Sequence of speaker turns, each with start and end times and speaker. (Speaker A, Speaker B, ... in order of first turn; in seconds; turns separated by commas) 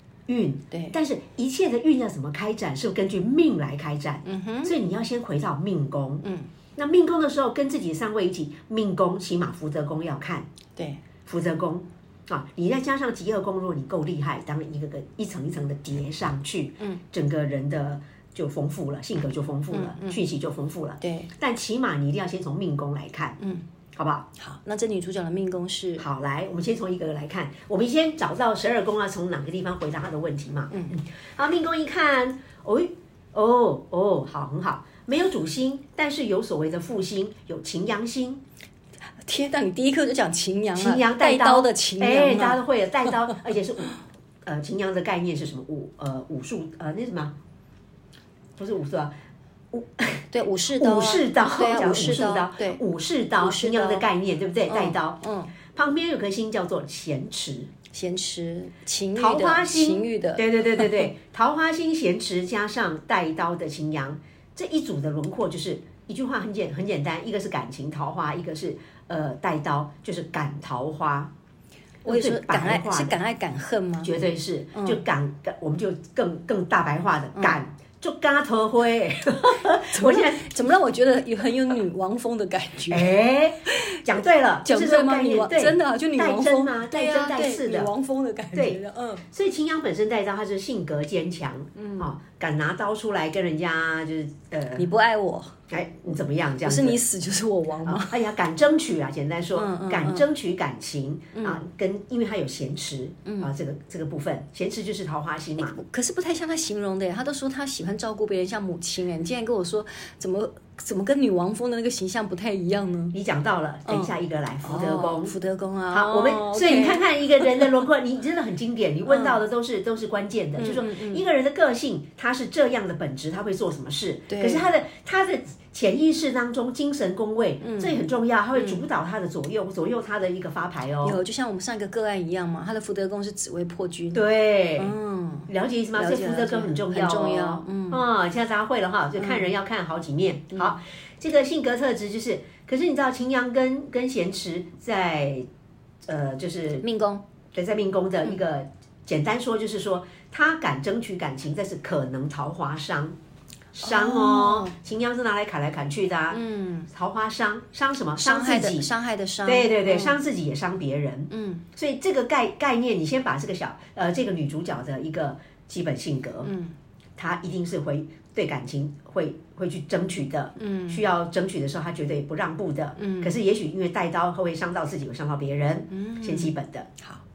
Speaker A: 0.3-10.5, Speaker B: 4.2-4.7, Speaker B: 6.2-6.5, Speaker B: 10.8-11.0, Speaker A: 11.3-23.4, Speaker B: 19.7-20.2, Speaker B: 21.0-21.3, Speaker B: 23.4-23.7, Speaker A: 23.9-24.3, Speaker B: 24.4-26.1, Speaker A: 26.0-38.4, Speaker B: 30.7-31.0, Speaker B: 39.2-42.6, Speaker A: 40.8-43.9, Speaker A: 44.5-47.4, Speaker A: 48.6-49.1, Speaker A: 49.7-55.2, Speaker B: 50.3-52.8, Speaker B: 53.4-54.1, Speaker B: 54.7-55.5, Speaker A: 55.7-57.7, Speaker B: 57.9-61.1, Speaker A: 59.2-71.3, Speaker A: 72.0-73.2, Speaker B: 72.1-74.1, Speaker A: 74.0-80.5, Speaker B: 74.7-75.0, Speaker B: 79.8-83.2, Speaker A: 82.9-87.9, Speaker B: 83.7-84.0, Speaker B: 84.7-89.2, Speaker A: 88.5-94.9, Speaker B: 91.8-92.1, Speaker B: 94.8-95.6, Speaker A: 95.7-97.0, Speaker B: 96.6-98.2, Speaker A: 97.8-105.8, Speaker B: 99.5-100.3, Speaker B: 101.3-101.6, Speaker B: 103.2-103.5, Speaker B: 105.6-113.2, Speaker A: 113.1-115.3, Speaker B: 113.9-117.8, Speaker A: 115.9-131.2, Speaker B: 119.1-119.4, Speaker B: 120.6-121.2, Speaker B: 124.3-124.7, Speaker B: 127.6-128.8, Speaker B: 131.0-138.0, Speaker A: 134.1-134.9, Speaker A: 135.5-145.5, Speaker A: 146.1-146.9, Speaker B: 146.8-147.2, Speaker A: 147.5-153.2, Speaker A: 153.8-158.9, Speaker B: 153.8-154.7, Speaker B: 156.3-156.9, Speaker B: 158.2-160.2, Speaker A: 159.4-166.5, Speaker B: 161.3-161.7, Speaker B: 166.4-166.8, Speaker A: 167.2-176.9, Speaker B: 170.6-171.0, Speaker B: 173.0-173.3, Speaker B: 175.9-177.2